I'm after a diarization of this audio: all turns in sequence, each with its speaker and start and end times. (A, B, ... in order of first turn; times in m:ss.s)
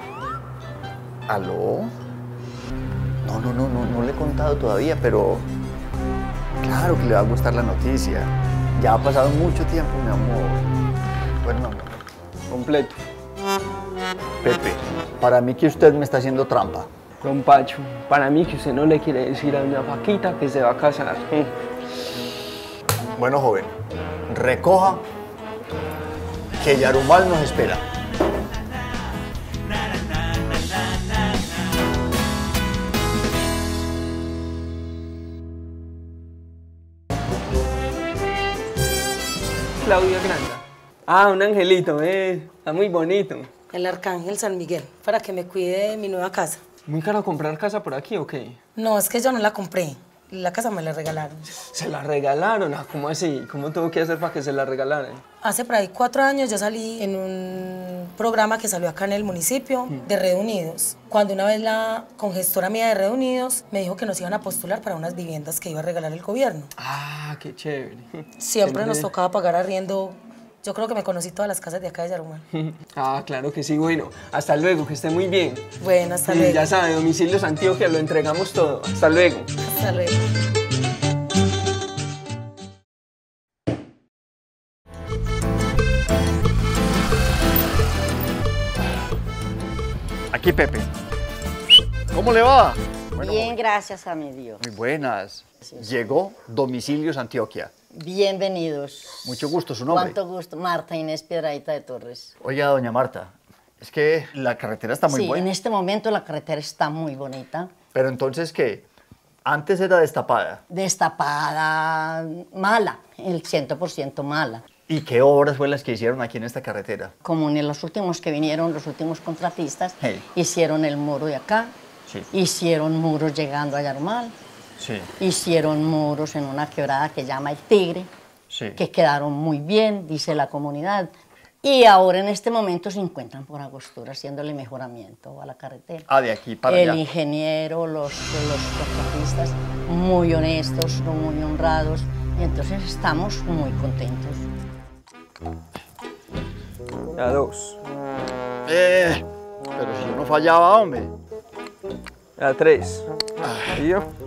0:01.3-0:01.9 A
0:03.2-0:05.5 A
0:06.6-0:10.6 A
0:11.4-0:11.9 A
0:12.5-0:13.0 B
0:14.4-0:16.9 A
0:17.2-0:21.5 B
0:23.1-0:23.7 A
0:24.3-0:25.0 A
0:26.6-0:27.8 A
0:39.8-0:43.5 B
0:43.7-0:46.6 C
0:46.8-0:48.6 B
0:48.8-0:51.5 C
0:51.5-0:55.2 B
0:55.4-1:06.7 C
1:06.8-1:09.1 B
1:08.4-1:12.4 C
1:12.5-1:15.6 B
1:15.8-1:16.7 C
1:16.3-1:19.5 B
1:19.6-1:20.2 C
1:30.3-1:30.9 A
1:32.1-1:33.6 A
1:33.2-1:34.6 D
1:34.6-1:37.7 A
1:37.9-1:42.3 D
1:39.2-1:40.2 A
1:42.4-1:45.5 A
1:45.1-1:47.7 D
1:47.9-1:48.8 A
1:49.4-1:50.6 A
1:50.7-1:54.6 D
1:54.9-1:57.1 A
1:57.2-2:01.7 D
2:02.3-2:04.3 D
2:04.8-2:05.1 A
2:05.2-2:08.1 D
2:08.5-2:08.8 A
2:08.8-2:11.1 D
2:11.6-2:16.1 D
2:16.1-2:17.0 A
2:16.6-2:24.5 D
2:27.1-2:27.8 B
2:28.6-2:31.1 A
2:32.4-2:33.1 B
2:33.4-2:33.8 A
2:33.7-2:34.1 B